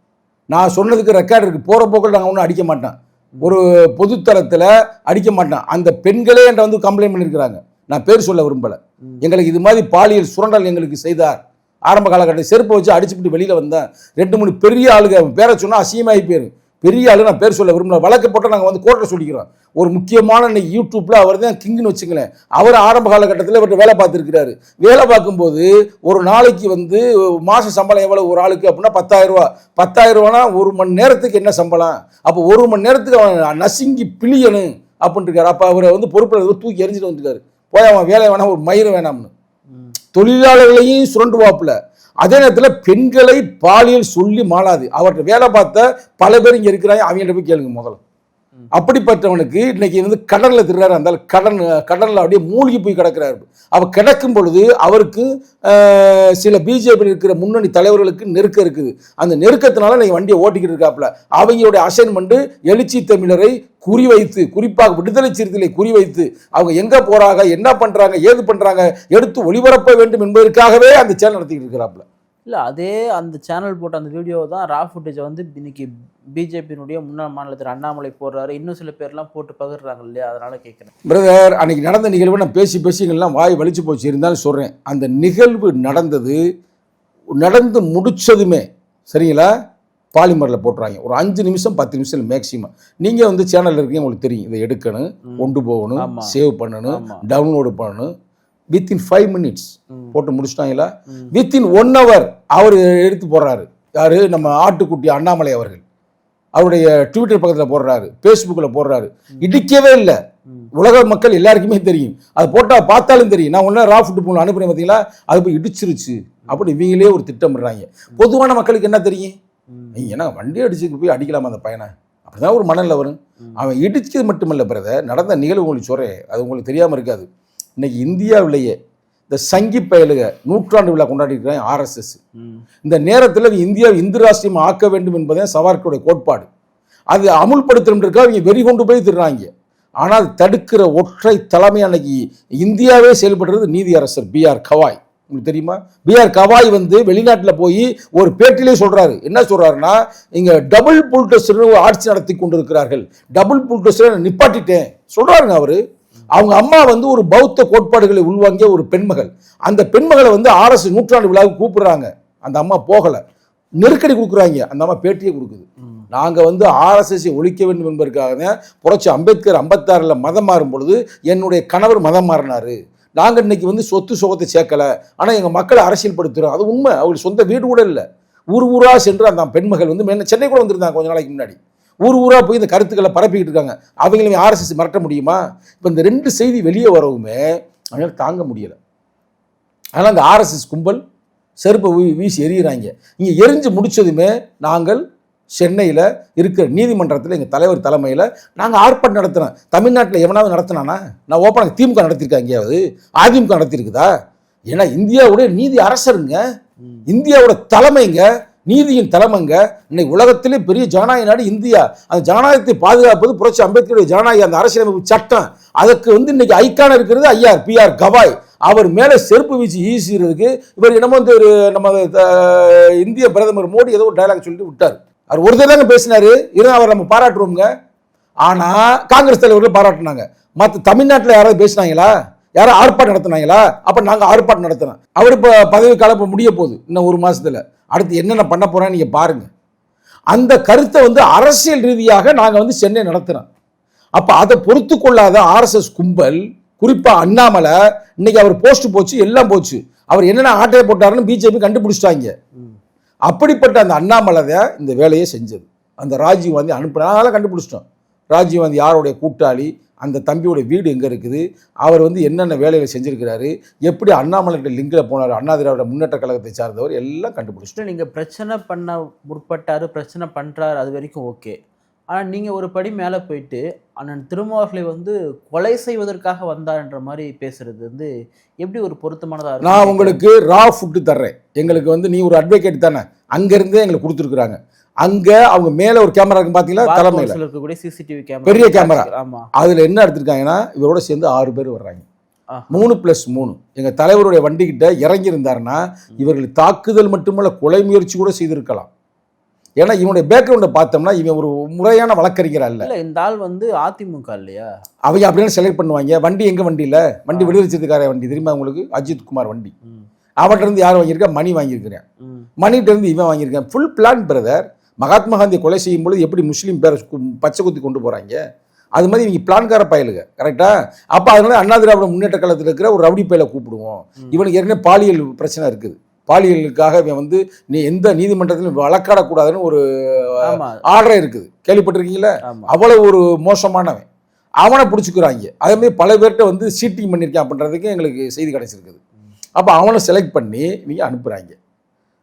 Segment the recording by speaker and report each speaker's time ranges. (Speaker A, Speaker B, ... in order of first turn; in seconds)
Speaker A: 0.5-39.3, 40.1-48.0, 48.8-72.0, 81.1-86.4, 87.4-89.5, 90.2-98.1, 98.7-105.8, 106.5-110.2, 110.8-119.3, 120.0-128.8, 129.3-132.2, 132.8-136.5, 137.1-139.5, 140.0-155.8, 156.3-163.2, 163.8-188.8, 190.0-191.0, 191.6-195.0, 195.6-204.1, 204.7-206.4, 207.1-227.7, 228.4-239.5, 240.3-243.5, 244.2-252.3, 253.3-267.8, 279.6-287.4, 288.5-292.1, 292.7-298.9, 299.8-302.9, 305.1-309.7, 310.4-312.0, 312.6-318.4, 319.0-334.1, 334.6-339.0, 339.6-341.6
Speaker B: 72.5-80.9, 95.3-96.3, 96.9-97.2, 99.9-100.2, 119.7-120.1, 132.4-132.6, 267.8-271.6, 272.1-278.1, 278.6-280.2, 286.8-289.5, 292.5-292.9, 302.8-304.7, 307.3-307.6, 312.2-312.5, 330.5-330.8, 332.4-332.7